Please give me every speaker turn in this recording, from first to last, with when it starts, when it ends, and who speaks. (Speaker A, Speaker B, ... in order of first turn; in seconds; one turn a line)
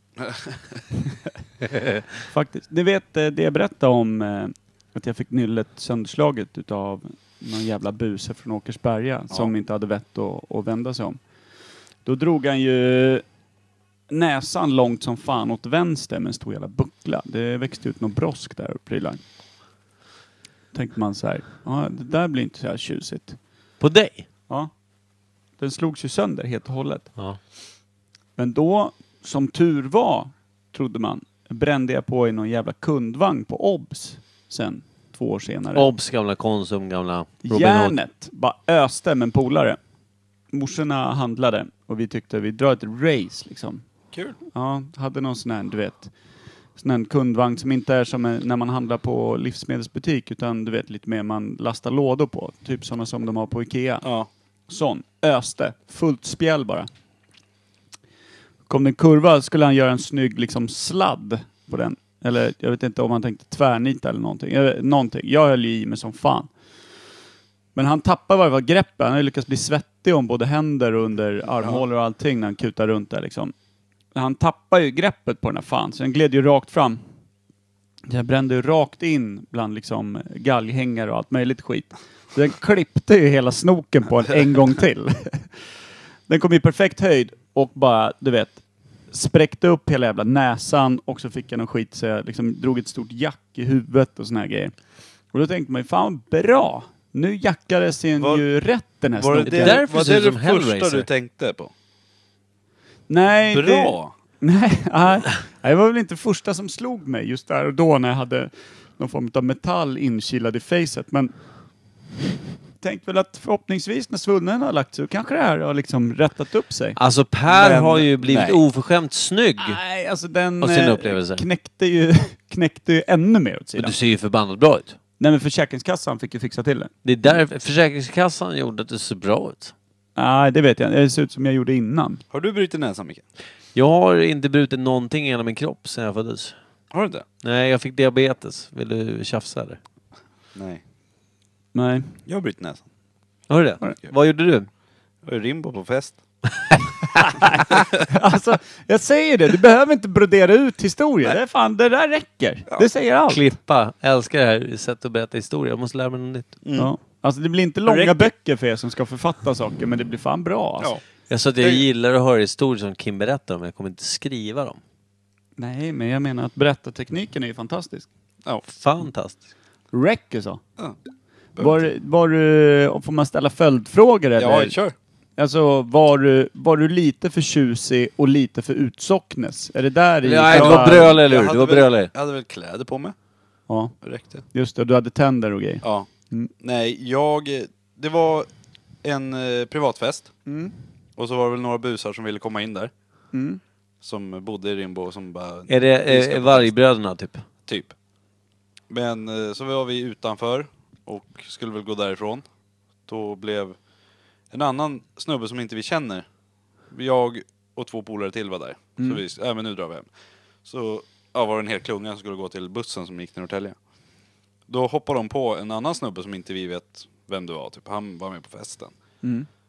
Speaker A: 0.2-0.8
Speaker B: 1.7-2.0
Speaker C: 2.3-11.2
Speaker C: 12.1-13.2
Speaker C: 14.1-19.2
Speaker C: 20.7-23.4
Speaker B: 23.8-24.3
Speaker C: 25.6-27.1
Speaker C: 28.4-35.9
Speaker B: 35.8-38.0
Speaker C: 37.4-39.8
Speaker C: 40.5-43.8
Speaker A: 44.1-44.4
Speaker C: 44.5-46.1
Speaker C: 46.8-54.1
Speaker A: 54.0-54.3
Speaker C: 54.7-56.9
Speaker C: 58.7-66.5
Speaker C: 67.8-73.5
Speaker C: 74.2-77.0
Speaker C: 78.1-85.5
Speaker C: 86.3-94.7
Speaker C: 95.3-99.8
Speaker A: 98.2-98.5
Speaker A: 99.2-101.7
Speaker B: 99.5-101.1
Speaker C: 103.1-111.3
Speaker A: 103.5-104.1
Speaker C: 112.8-117.0
Speaker B: 117.0-119.8
Speaker A: 117.5-118.6
Speaker C: 119.6-124.0
Speaker B: 120.6-121.4
Speaker B: 123.8-125.0
Speaker C: 125.2-126.9
Speaker B: 127.0-129.7
Speaker C: 130.2-132.2
Speaker A: 132.3-133.2
Speaker B: 133.8-136.5
Speaker A: 136.9-137.2
Speaker B: 137.4-139.8
Speaker A: 140.5-140.8
Speaker C: 141.8-142.2
Speaker A: 142.3-142.8
Speaker B: 143.5-144.7
Speaker A: 145.2-146.2
Speaker C: 147.2-153.4
Speaker B: 153.3-156.5
Speaker A: 156.6-156.9
Speaker C: 156.8-160.9
Speaker B: 157.9-158.3
Speaker B: 161.3-164.8
Speaker A: 161.6-161.8
Speaker C: 165.6-168.1
Speaker B: 168.6-169.5
Speaker C: 169.9-170.6
Speaker A: 171.6-171.9
Speaker C: 171.6-174.8
Speaker A: 174.4-174.9
Speaker C: 175.4-181.2
Speaker B: 180.2-182.1
Speaker A: 180.5-183.2
Speaker C: 183.7-183.9
Speaker A: 184.0-184.4
Speaker C: 184.5-186.5
Speaker A: 185.8-186.1
Speaker A: 186.6-188.5
Speaker A: 189.0-190.3
Speaker C: 190.5-190.7
Speaker A: 191.2-192.9
Speaker C: 193.3-193.6
Speaker A: 194.0-196.7
Speaker B: 195.7-197.4
Speaker A: 197.7-197.9
Speaker A: 198.9-202.4
Speaker A: 203.1-203.8
Speaker A: 204.5-206.3
Speaker A: 206.9-210.1
Speaker A: 210.7-213.8
Speaker A: 214.7-218.9